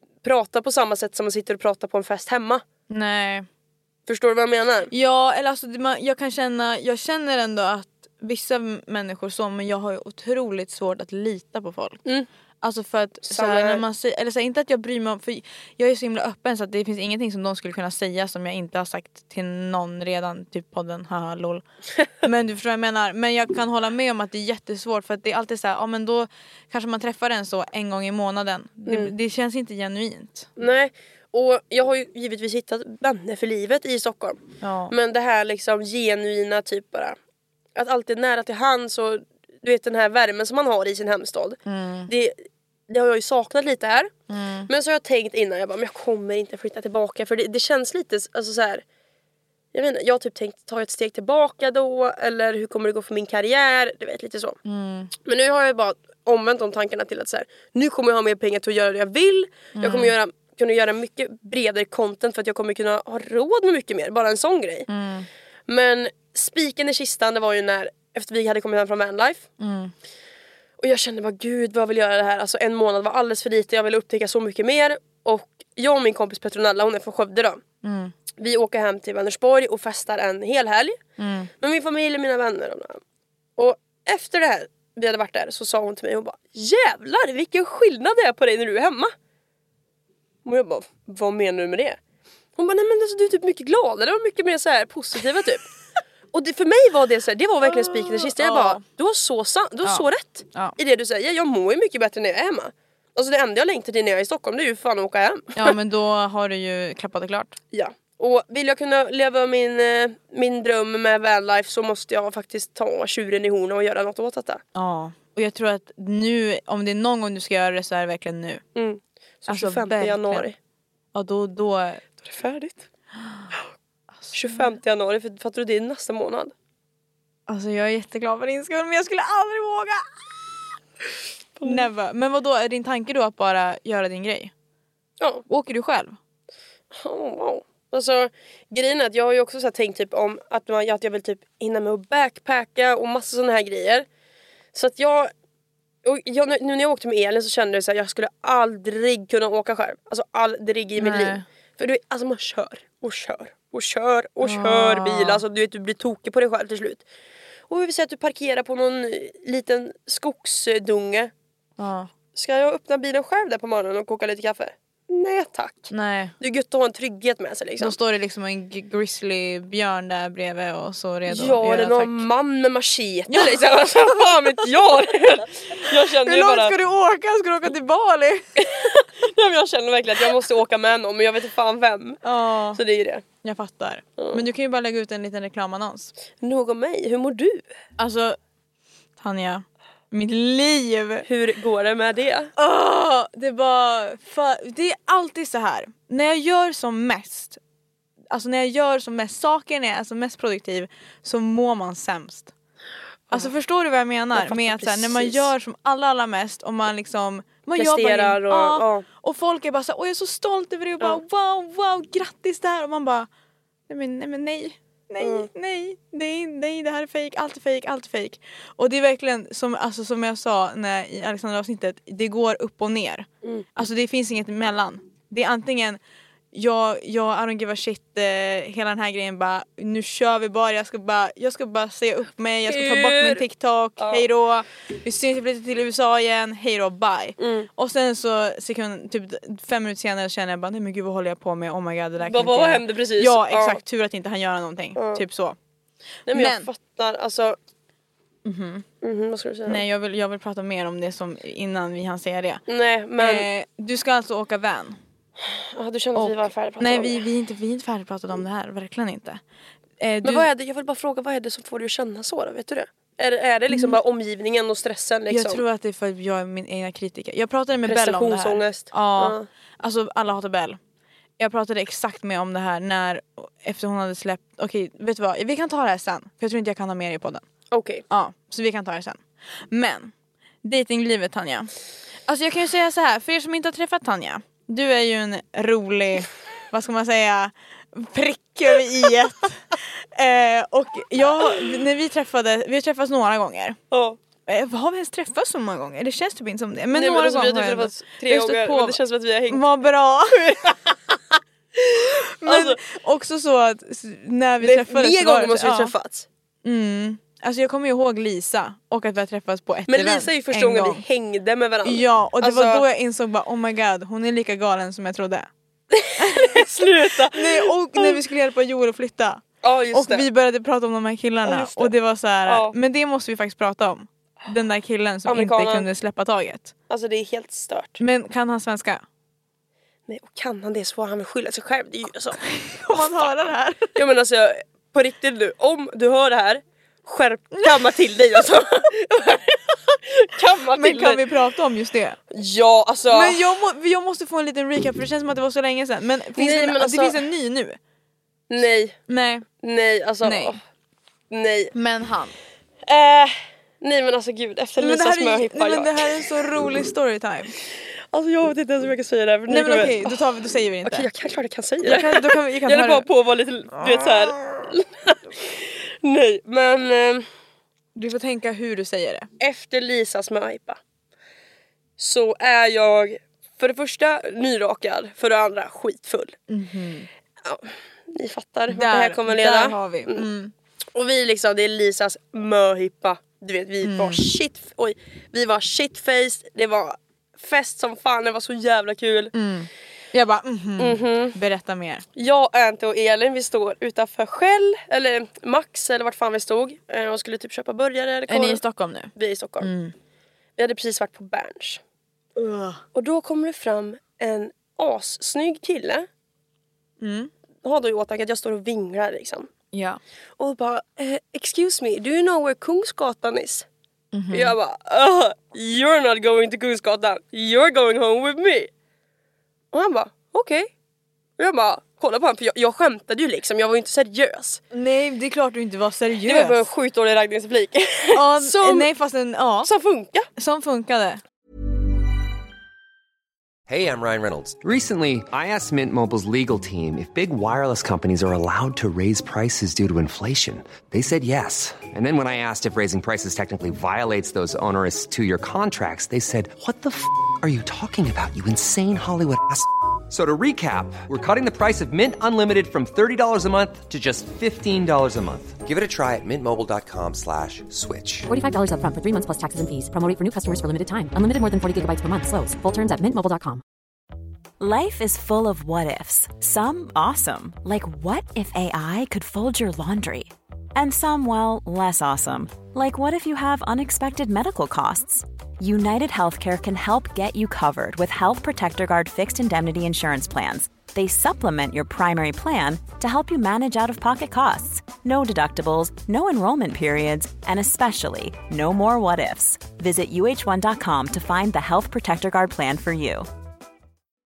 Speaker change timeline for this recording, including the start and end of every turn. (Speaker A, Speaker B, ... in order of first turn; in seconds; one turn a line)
Speaker A: 0.2-2.6
Speaker B: 2.9-3.5
Speaker A: 4.1-4.9
Speaker B: 4.9-12.0
Speaker B: 12.6-21.6
Speaker A: 13.2-13.8
Speaker B: 22.2-30.5
Speaker A: 28.9-29.1
Speaker A: 30.6-37.2
Speaker B: 34.6-34.9
Speaker A: 37.7-44.1
Speaker B: 41.6-42.1
Speaker B: 44.3-44.7
Speaker A: 44.7-48.8
Speaker A: 49.7-54.6
Speaker B: 54.6-55.1
Speaker A: 55.2-64.9
Speaker B: 59.7-60.1
Speaker B: 64.9-65.3
Speaker A: 65.7-69.5
Speaker B: 69.6-69.9
Speaker A: 70.8-77.6
Speaker B: 77.8-78.1
Speaker A: 78.4-81.0
Speaker B: 81.2-81.5
Speaker A: 81.6-83.0
Speaker A: 83.6-89.1
Speaker A: 90.4-92.0
Speaker A: 92.5-95.7
Speaker A: 96.3-105.8
Speaker B: 97.6-98.8
Speaker B: 99.8-100.8
Speaker B: 105.5-107.6
Speaker A: 107.7-114.6
Speaker B: 114.7-118.6
Speaker A: 118.7-120.5
Speaker B: 119.5-120.5
Speaker B: 121.1-122.0
Speaker A: 122.2-122.8
Speaker B: 124.2-124.7
Speaker A: 124.3-126.5
Speaker B: 127.5-130.0
Speaker A: 131.6-131.9
Speaker B: 131.6-134.5
Speaker B: 135.5-136.2
Speaker A: 136.9-144.1
Speaker A: 144.7-145.3
Speaker A: 146.0-157.0
Speaker B: 151.0-151.4
Speaker B: 154.4-155.4
Speaker A: 157.7-161.3
Speaker B: 161.8-162.1
Speaker A: 162.3-167.9
Speaker B: 165.9-166.3
Speaker B: 167.8-172.2
Speaker A: 171.2-176.8
Speaker B: 173.3-174.1
Speaker B: 175.9-178.6
Speaker A: 178.6-183.2
Speaker B: 182.2-182.8
Speaker B: 183.4-186.1
Speaker A: 184.2-184.4
Speaker A: 186.4-187.7
Speaker B: 188.0-188.4
Speaker B: 189.2-191.2
Speaker A: 191.2-192.5
Speaker B: 192.6-197.6
Speaker B: 198.3-202.5
Speaker B: 203.3-213.3
Speaker A: 204.3-205.5
Speaker A: 207.8-209.0
Speaker B: 213.9-226.0
Speaker A: 215.2-215.5
Speaker B: 226.5-245.6
Speaker A: 232.7-233.4
Speaker A: 234.0-234.3
Speaker A: 237.4-237.7
Speaker A: 242.2-243.8
Speaker A: 244.9-245.2
Speaker A: 246.3-247.6
Speaker B: 246.3-246.7
Speaker B: 248.4-248.8
Speaker A: 249.0-249.8
Speaker B: 249.7-252.6
Speaker A: 252.7-253.5
Speaker B: 253.2-255.0
Speaker A: 255.4-257.2
Speaker B: 256.1-259.4
Speaker B: 260.0-260.5
Speaker A: 260.2-265.6
Speaker B: 263.7-264.0
Speaker B: 265.3-270.8
Speaker A: 267.9-269.5
Speaker B: 271.4-277.4
Speaker A: 277.7-278.0
Speaker B: 278.1-281.7
Speaker B: 282.3-293.8
Speaker A: 293.9-294.2
Speaker B: 294.5-300.5
Speaker A: 296.9-299.7
Speaker A: 300.3-301.2
Speaker B: 302.4-305.9
Speaker A: 302.4-302.8
Speaker A: 304.6-306.3
Speaker B: 306.6-311.0
Speaker A: 309.9-312.8
Speaker B: 311.8-315.5
Speaker A: 315.9-318.2
Speaker B: 316.2-316.7
Speaker B: 317.3-326.7
Speaker A: 319.6-320.3
Speaker A: 321.4-321.9
Speaker A: 322.5-322.8
Speaker A: 325.2-325.9
Speaker A: 326.9-328.0
Speaker B: 328.0-329.0
Speaker A: 330.1-332.4
Speaker B: 332.4-333.9
Speaker A: 332.9-333.2
Speaker A: 333.9-341.2
Speaker B: 340.7-342.2
Speaker A: 342.3-343.4
Speaker B: 343.1-347.8
Speaker A: 346.4-347.2
Speaker A: 348.5-349.0
Speaker B: 349.1-349.5
Speaker A: 349.6-350.6
Speaker B: 350.2-350.6
Speaker A: 351.3-351.7
Speaker B: 351.7-352.4
Speaker A: 352.8-356.2
Speaker B: 354.8-357.5
Speaker A: 358.1-360.2
Speaker B: 359.5-361.1
Speaker A: 360.8-367.2
Speaker B: 361.8-363.1
Speaker B: 363.7-364.3
Speaker B: 367.9-369.3
Speaker A: 369.4-370.8
Speaker A: 372.0-376.4
Speaker B: 376.5-377.1
Speaker A: 377.4-380.3
Speaker B: 378.7-380.5
Speaker A: 380.9-389.3
Speaker B: 383.8-384.2
Speaker B: 389.3-392.0
Speaker A: 390.8-391.4
Speaker A: 392.1-398.6
Speaker B: 398.3-399.9
Speaker A: 399.1-399.7
Speaker A: 400.6-401.8
Speaker B: 402.4-402.8
Speaker A: 402.9-406.1
Speaker B: 407.0-407.3
Speaker A: 407.6-409.5
Speaker B: 409.7-410.0
Speaker A: 410.4-413.7
Speaker B: 414.1-414.5
Speaker A: 414.3-418.7
Speaker A: 419.7-420.7
Speaker A: 421.4-424.6
Speaker B: 424.7-426.7
Speaker A: 426.2-428.9
Speaker B: 428.1-429.7
Speaker A: 429.6-430.3
Speaker B: 430.4-431.2
Speaker C: 433.7-458.3
Speaker D: 458.3-463.6
Speaker E: 464.6-493.3